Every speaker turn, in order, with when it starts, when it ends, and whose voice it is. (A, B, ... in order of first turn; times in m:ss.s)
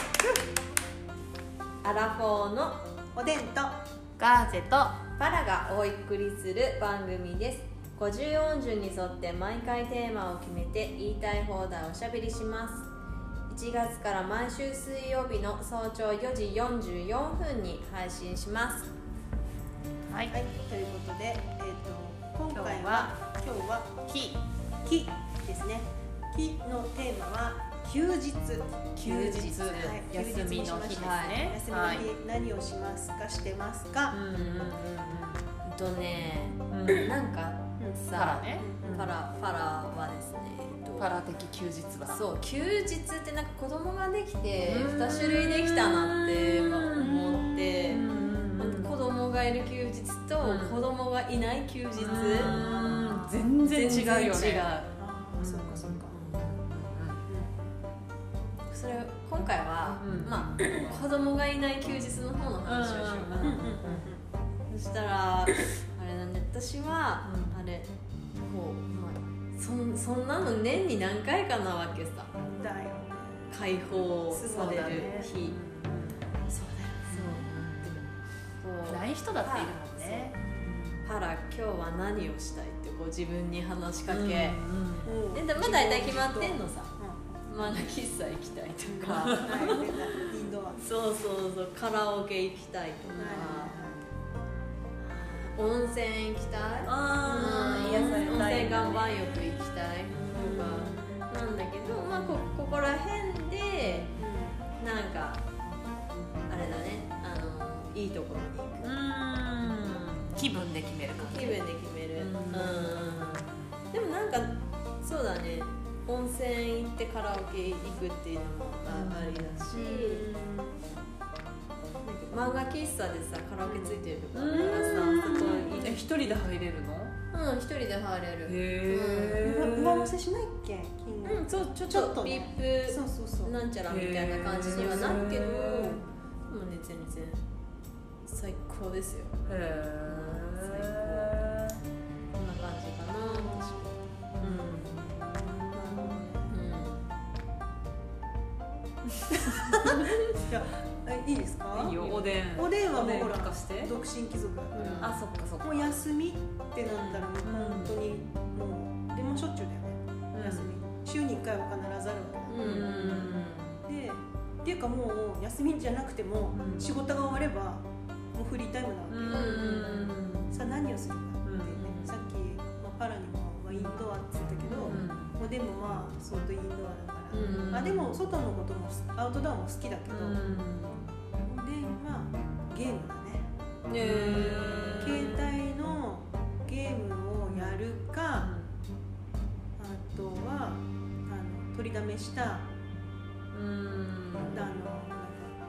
0:01.8-0:02.8 A
0:03.1-0:03.7 B
0:04.2-0:05.0 C
0:05.2-0:12.9 A
0:13.5-0:18.9 A
0:20.1-0:20.3 C
0:20.3-0:24.0 B
0:22.5-0:23.1 C
0:24.1-0:24.4 C
0:24.8-0:34.2 B
0:29.0-0:32.1 C
0:29.0-0:30.0 A
0:30.9-0:31.4 A
0:34.1-0:35.4 C
0:34.3-0:34.7 A
0:35.6-0:41.1 A
0:36.7-0:37.1 C
0:38.1-0:39.2 C
0:38.5-0:39.0 B
0:41.0-0:42.2 C
0:42.0-0:48.0 A
0:44.6-0:48.9 C
0:48.6-0:54.9 A
0:50.4-0:50.8 C
0:52.0-0:54.7 C
0:52.1-0:53.3 B
0:55.0-0:56.2 B
0:55.4-0:56.0 C
0:56.1-0:56.7 A
0:56.6-0:57.2 C
0:57.3-0:57.6 B
0:58.7-1:04.0 A
0:59.9-1:01.0 C
1:02.6-1:03.8 C
1:03.4-1:04.2 B
1:04.7-1:12.3 A
1:07.2-1:07.6 C
1:12.5-1:13.5 B
1:13.5-1:15.6 A
1:14.3-1:15.2 B
1:14.4-1:16.2 C
1:16.5-1:17.1 B
1:17.1-1:18.0 C
1:17.1-1:20.3 A
1:18.8-1:21.0 C
1:21.0-1:24.6 A
1:24.1-1:25.1 C
1:25.0-1:27.2 B
1:25.3-1:29.9 A
1:28.8-1:30.8 B
1:29.2-1:29.7 C
1:30.8-1:33.8 A
1:33.1-1:33.4 C
1:33.2-1:34.0 B
1:35.0-1:44.1 A
1:36.8-1:39.2 C
1:37.2-1:38.5 B
1:40.1-1:41.1 C
1:40.3-1:41.2 B
1:42.0-1:42.5 C
1:44.2-1:44.6 B
1:44.8-1:45.4 A
1:46.5-1:48.9 A
1:48.8-1:51.6 C
1:51.2-2:00.2 A
1:52.2-1:53.0 C
1:58.9-1:59.5 C
1:59.7-2:00.8 B
2:02.0-2:06.1 A
2:03.7-2:05.9 B
2:04.3-2:07.1 C
2:07.3-2:09.4 A
2:08.4-2:10.1 C
2:09.4-2:13.5 B
2:11.2-2:17.4 A
2:13.8-2:16.0 C
2:18.2-2:19.4 A
2:19.4-2:21.8 C
2:20.0-2:21.4 A
2:22.3-2:25.0 A
2:23.2-2:23.9 B
2:24.4-2:26.3 C
2:25.7-2:26.5 B
2:26.4-2:27.0 A
2:29.8-2:42.9 B
2:31.7-2:33.9 C
2:34.8-2:35.1 A
2:35.0-2:35.9 C
2:36.8-2:38.0 C
2:40.3-2:40.7 C
2:42.5-2:43.8 A
2:42.6-2:43.5 C
2:43.8-2:47.8 B
2:46.5-2:46.9 C
2:48.3-3:00.4 B
2:49.1-2:50.6 C
2:49.3-2:50.1 A
2:51.4-2:52.1 C
2:53.7-2:54.0 C
2:54.6-2:55.1 A
2:54.8-2:55.3 C
2:57.3-2:58.1 C
2:57.3-2:58.0 A
3:00.1-3:01.1 C
3:01.4-3:03.5 B
3:03.9-3:05.3 A
3:04.0-3:05.5 C
3:04.2-3:08.5 B
3:07.5-3:07.8 C
3:08.4-3:08.7 C
3:09.8-3:12.7 B
3:13.5-3:14.7 C
3:14.5-3:15.5 B